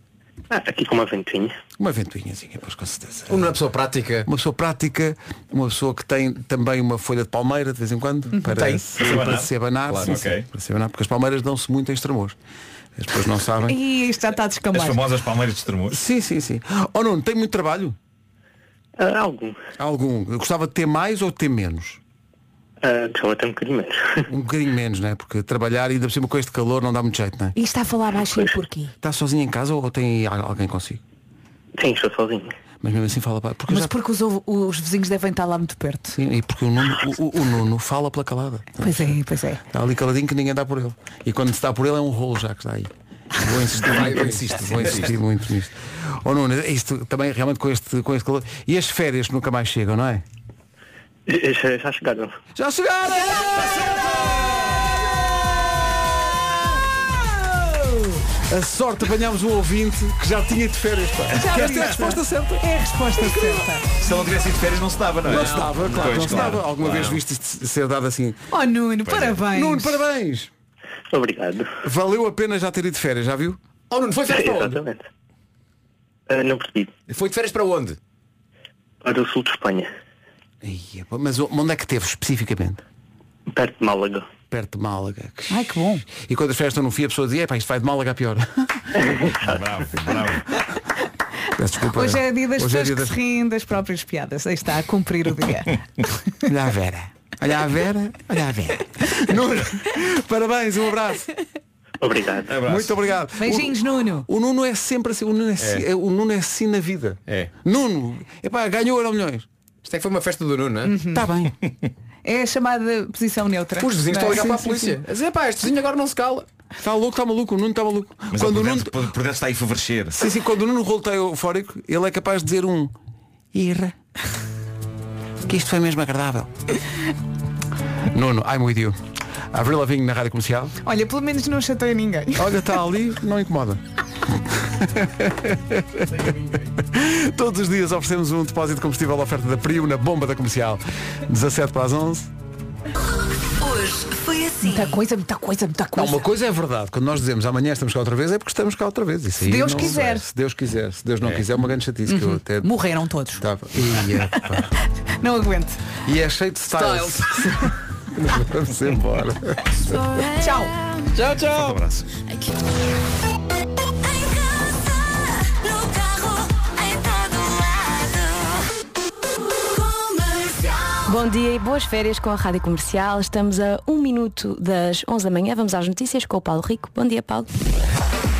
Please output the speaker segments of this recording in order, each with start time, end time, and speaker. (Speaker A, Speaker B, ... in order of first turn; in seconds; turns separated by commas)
Speaker A: 0.5-1.5, Speaker B: 1.8-3.5, Speaker C: 3.3-4.3, Speaker B: 4.2-12.3, Speaker C: 8.5-10.2, Speaker D: 9.0-9.5, Speaker D: 10.0-10.5, Speaker B: 13.0-13.8, Speaker E: 13.7-15.0, Speaker D: 14.7-16.0, Speaker B: 15.9-17.9, Speaker A: 19.0-19.6, Speaker B: 19.8-22.0, Speaker A: 22.8-24.2, Speaker B: 24.3-27.5, Speaker E: 27.6-28.9, Speaker B: 29.0-31.0, Speaker A: 31.8-32.5, Speaker B: 32.8-33.9, Speaker E: 33.7-36.1, Speaker B: 36.1-39.1, Speaker E: 38.8-39.6, Speaker B: 39.7-50.2, Speaker C: 43.8-45.1, Speaker A: 51.3-52.3, Speaker B: 52.6-54.6, Speaker E: 57.6-58.1, Speaker B: 58.5-63.6, Speaker D: 61.3-61.7, Speaker E: 61.4-63.9, Speaker D: 64.0-66.6, Speaker B: 65.2-68.4, Speaker C: 65.3-67.2, Speaker E: 68.5-70.0, Speaker D: 69.0-69.4, Speaker B: 69.5-70.5, Speaker A: 71.1-71.7, Speaker B: 71.8-73.6, Speaker C: 73.9-74.8, Speaker A: 74.3-75.0, Speaker A: 76.3-76.9, Speaker C: 77.1-78.0, Speaker A: 79.0-79.9, Speaker B: 80.6-82.8, Speaker A: 83.5-84.3, Speaker B: 84.5-88.8, Speaker E: 85.5-86.0, Speaker D: 89.4-90.4, Speaker B: 91.5-93.2, Speaker E: 91.9-95.8, Speaker B: 96.5-101.2, Speaker A: 102.0-102.5, Speaker D: 102.5-103.0, Speaker B: 102.7-109.5, Speaker E: 103.4-104.2, Speaker C: 109.8-111.0, Speaker E: 110.8-111.2, Speaker B: 111.1-111.5, Speaker E: 112.2-114.8, Speaker C: 113.8-116.5, Speaker B: 114.3-114.6, Speaker B: 116.8-119.0, Speaker D: 118.3-120.2, Speaker B: 120.2-122.9, Speaker B: 123.5-123.9, Speaker B: 125.4-126.5, Speaker B: 128.1-129.0, Speaker B: 129.5-130.7, Speaker E: 130.8-132.4, Speaker B: 132.3-133.8, Speaker B: 134.6-142.3, Speaker F: 143.6-144.9, Speaker E: 144.6-146.2, Speaker B: 145.9-152.7, Speaker E: 149.4-150.2, Speaker E: 152.1-153.4, Speaker B: 153.4-154.7, Speaker E: 155.2-155.8, Speaker B: 156.0-159.6, Speaker C: 156.7-157.3, Speaker F: 159.9-161.1, Speaker E: 160.4-160.7, Speaker C: 161.2-161.5, Speaker D: 161.3-162.1, Speaker F: 164.1-168.6, Speaker F: 169.7-177.5